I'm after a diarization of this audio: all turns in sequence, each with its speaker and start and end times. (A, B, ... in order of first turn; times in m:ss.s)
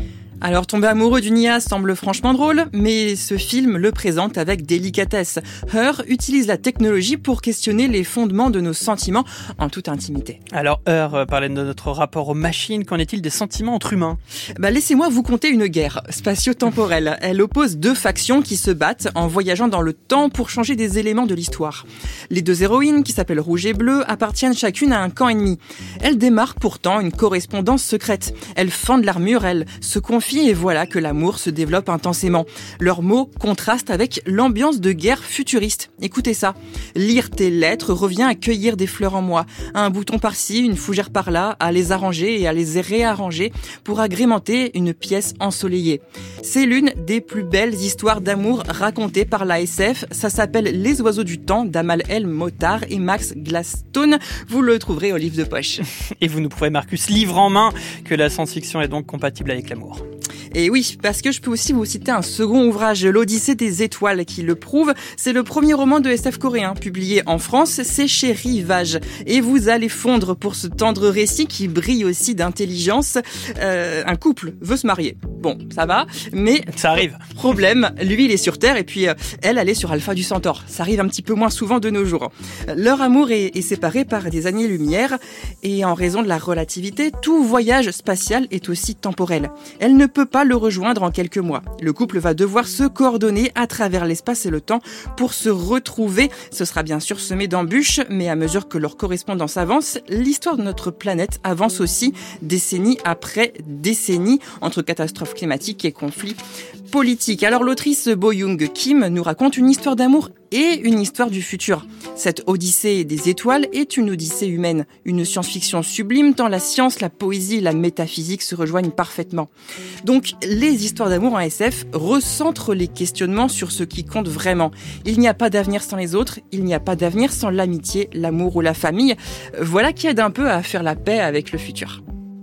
0:00.4-0:10.4 A
0:10.5-0:14.2 B
0:14.6-0:55.8 A
0:56.2-1:00.0 B
1:00.5-1:46.4 A
1:16.7-1:17.2 B
1:46.9-1:59.5 A
2:00.0-2:12.0 A